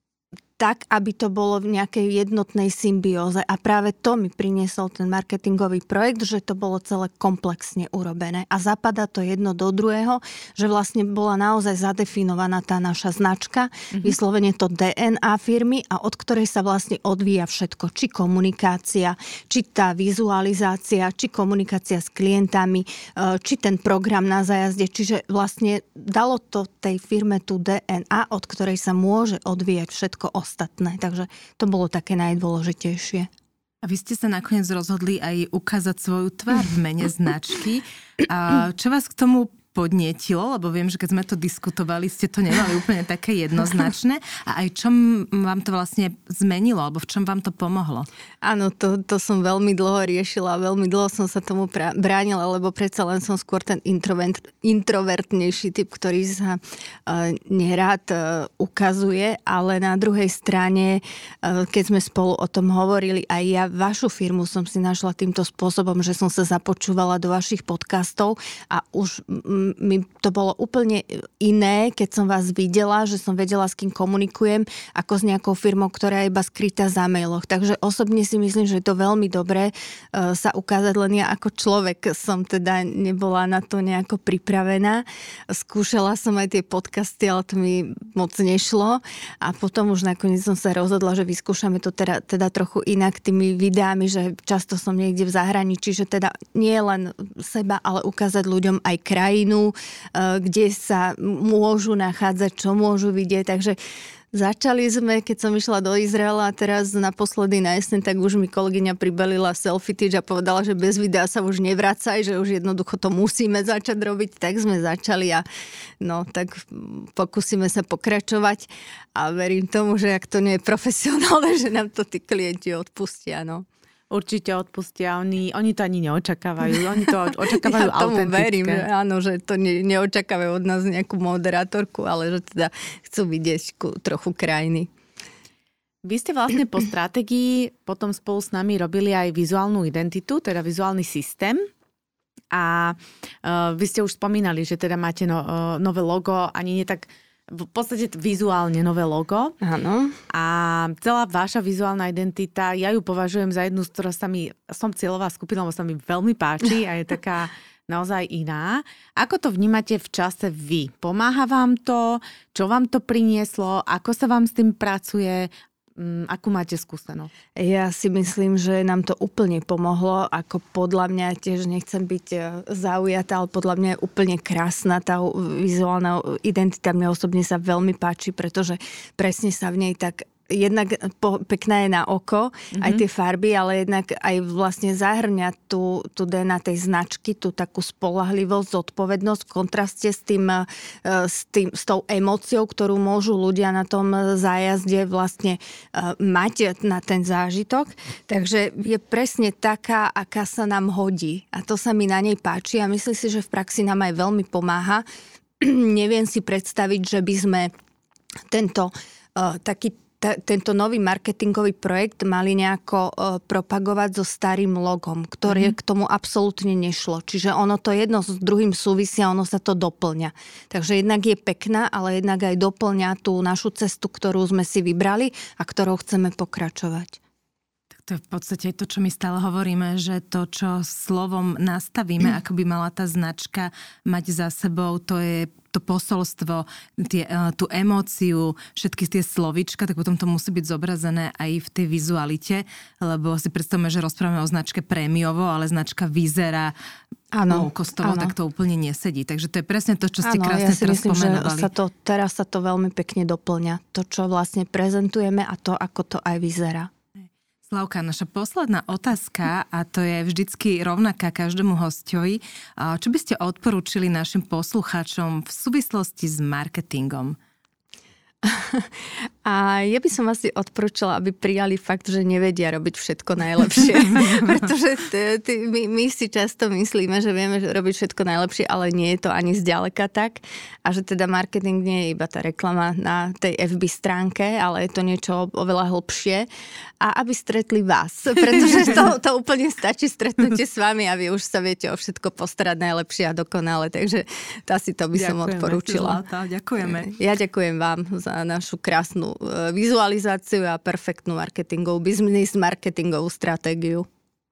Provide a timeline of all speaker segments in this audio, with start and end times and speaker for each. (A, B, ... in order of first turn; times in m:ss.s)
0:00.6-0:33.3 A
0:33.8-0:48.1 B
0:48.4-1:43.8 A
1:44.3-1:55.4 A
1:56.0-2:03.6 A
2:04.1-2:08.8 C
2:07.5-2:14.9 A
2:16.0-2:21.7 C
2:22.5-2:29.6 C
2:29.6-2:30.2 A
2:30.3-2:47.3 C
2:47.6-3:25.0 A
3:02.7-3:03.0 C
3:25.6-3:27.7 A
3:28.5-3:47.2 A
3:48.0-4:06.7 B
4:07.3-4:08.3 A
4:07.5-4:11.7 B
4:10.2-4:16.9 A
4:17.7-4:27.4 B
4:28.4-4:28.9 A
4:29.4-4:46.5 A
4:34.2-4:34.6 B
4:47.0-4:56.2 A
4:55.2-4:57.1 B
4:57.0-5:04.1 A